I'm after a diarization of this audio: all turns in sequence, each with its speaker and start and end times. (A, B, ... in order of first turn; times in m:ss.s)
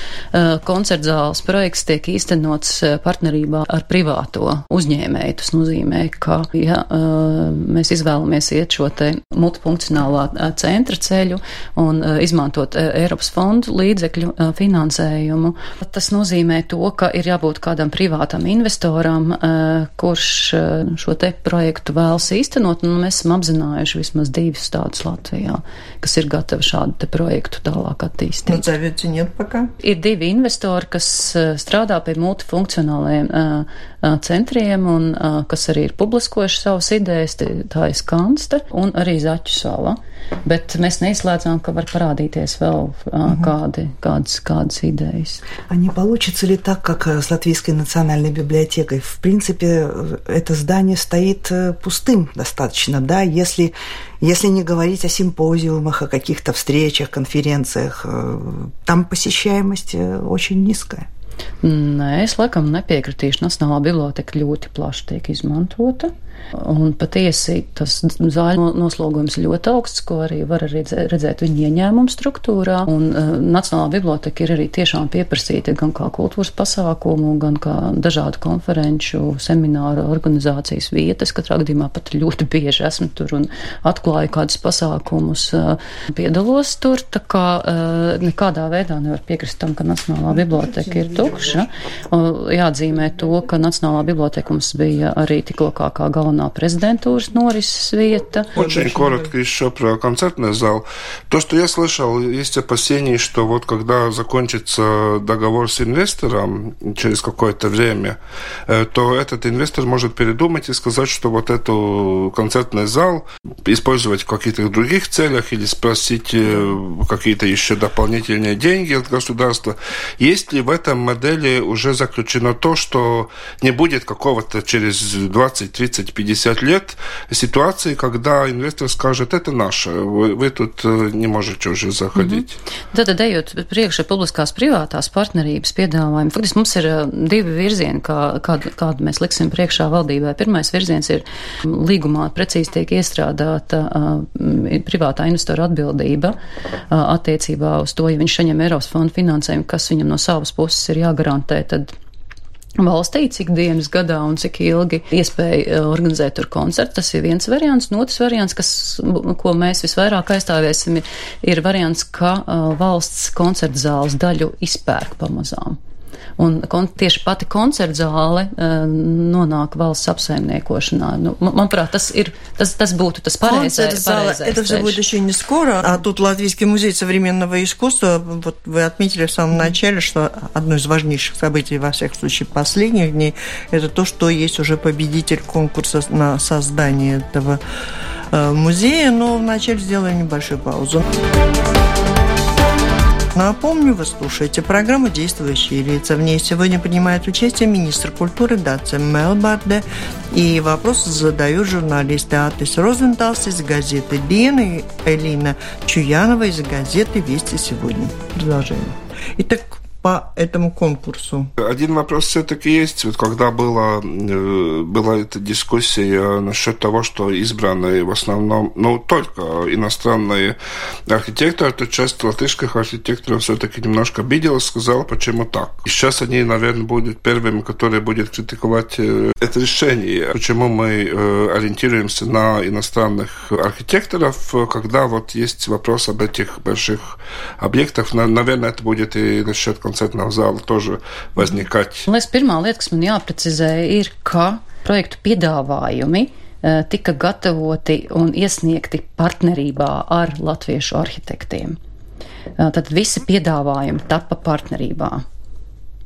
0:00.3-0:28.6 A
0:28.5-0:29.7 B
0:29.8-0:45.4 A
0:45.7-1:01.1 C
1:01.6-1:38.5 A
1:38.5-1:39.3 B
1:38.6-1:48.2 D
1:48.7-2:12.5 D
2:12.1-2:26.4 A
2:26.9-2:31.9 A
2:32.8-2:45.8 A
2:46.4-2:55.0 A
2:53.4-3:07.6 B
3:08.3-3:11.0 B
3:13.3-3:31.5 B
3:31.6-3:40.6 D
3:41.1-4:02.0 D
4:02.0-4:11.8 A
4:12.6-4:15.2 A